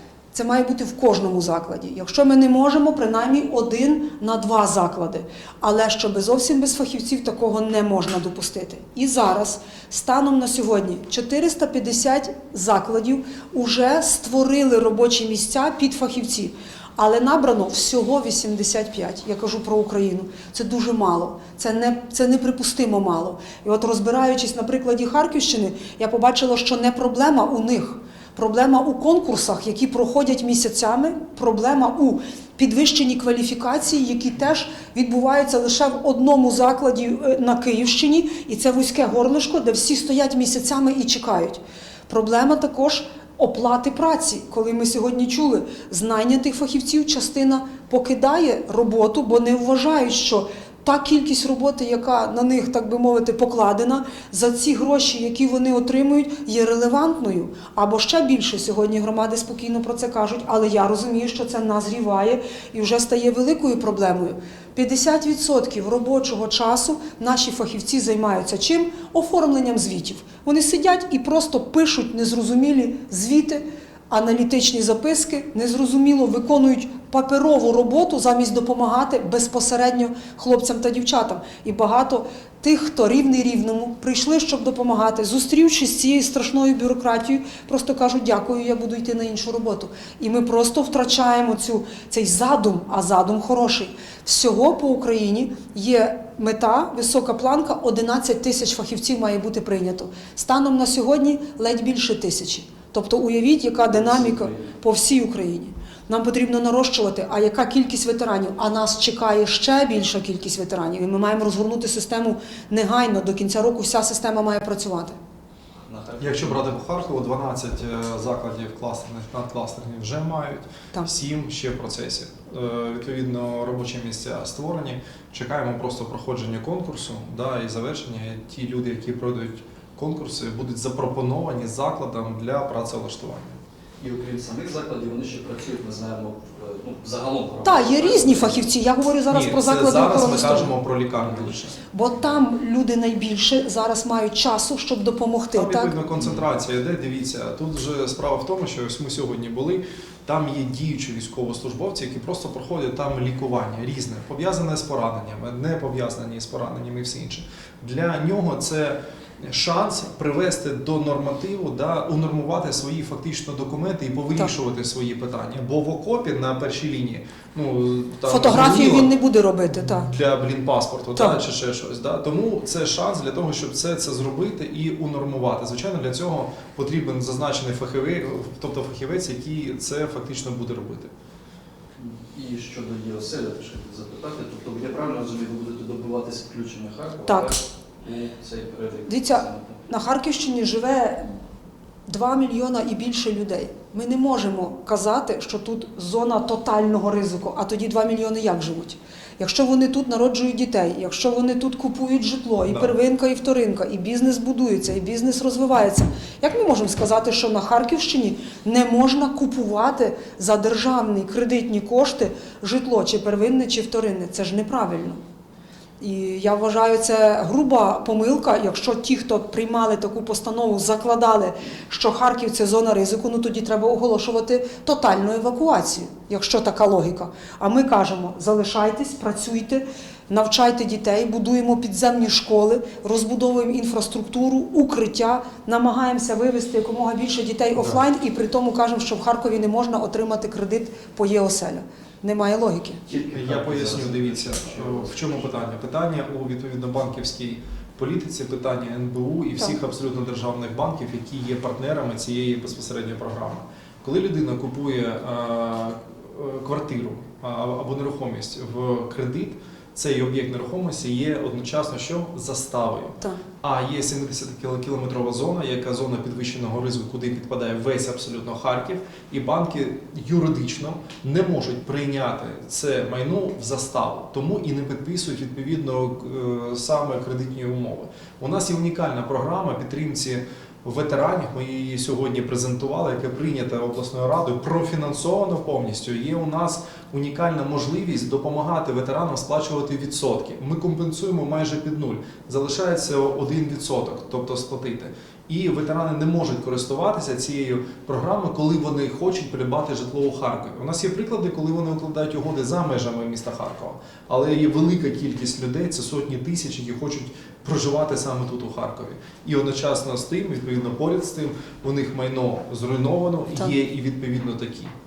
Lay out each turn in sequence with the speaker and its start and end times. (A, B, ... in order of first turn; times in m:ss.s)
0:00.3-1:55.2 A
1:43.9-1:44.8 B
1:55.8-1:56.8 B
1:56.2-2:13.6 C
2:14.0-2:18.7 B
2:17.6-2:20.7 A
2:19.3-2:21.8 C
2:21.1-2:21.5 B
2:21.9-2:26.0 A
2:25.5-2:49.1 C
2:26.2-2:26.4 B
2:48.2-2:50.1 A
2:49.7-3:01.1 C
3:02.0-3:09.8 B
3:07.3-3:07.5 A
3:09.1-3:11.3 A
3:12.1-3:35.2 A
3:36.0-4:03.0 A
4:03.0-4:05.7 B
4:03.3-5:14.9 C